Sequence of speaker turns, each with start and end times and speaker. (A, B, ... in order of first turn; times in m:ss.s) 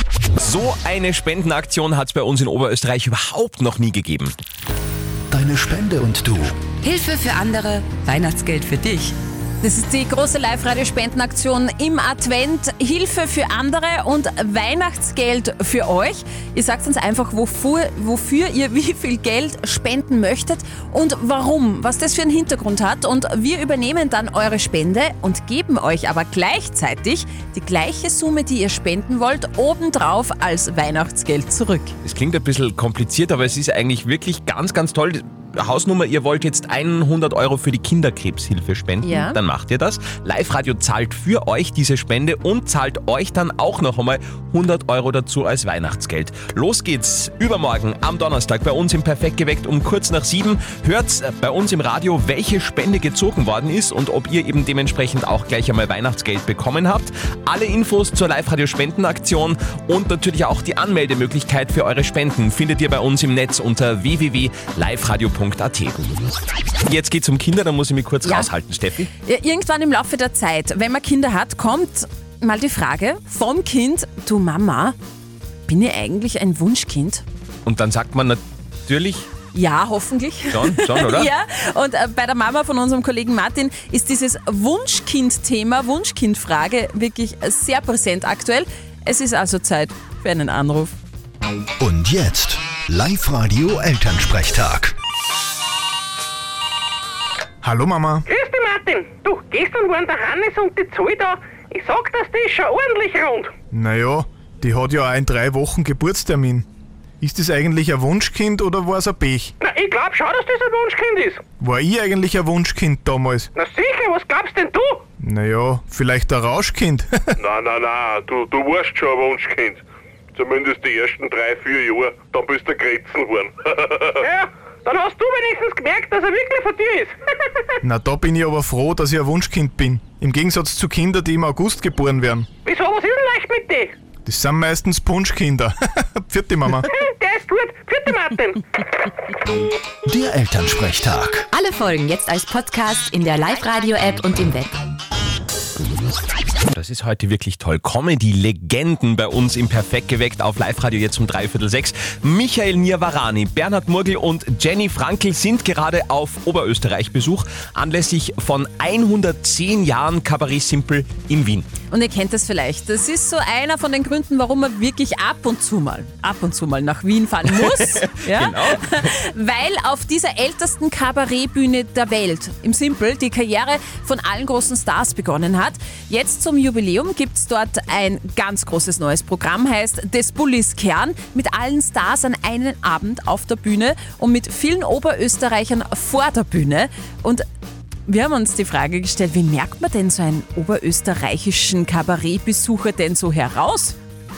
0:00.4-0:04.3 A
0:05.3-0:06.6 B
0:06.8-0:09.1 C
0:09.6-0:31.9 D
0:32.0-1:06.0 A
0:39.0-0:39.4 D
1:06.8-1:09.1 A
1:08.2-1:08.5 D
1:09.2-1:15.0 D
1:15.7-1:17.2 D
1:17.6-1:19.3 A
1:19.5-1:31.0 D
1:20.5-1:21.3 A
1:31.8-1:34.9 B
1:37.6-1:38.2 E
1:38.2-1:43.5 F
1:43.7-1:46.6 E
1:47.2-1:49.5 E
1:49.6-1:51.4 F
1:51.6-1:53.5 E
1:53.5-1:55.0 F
1:55.2-1:57.4 E
1:57.5-1:59.8 G
2:00.4-2:04.2 G
2:04.2-2:07.2 F
2:07.8-2:12.5 E
2:12.6-2:13.9 F
2:14.3-2:16.8 E
2:16.8-2:18.6 F
2:20.0-2:21.5 B
2:21.5-2:24.7 C
2:26.7-2:41.7 A
2:41.9-3:07.4 D
2:47.5-2:49.1 A
3:08.1-3:14.0 D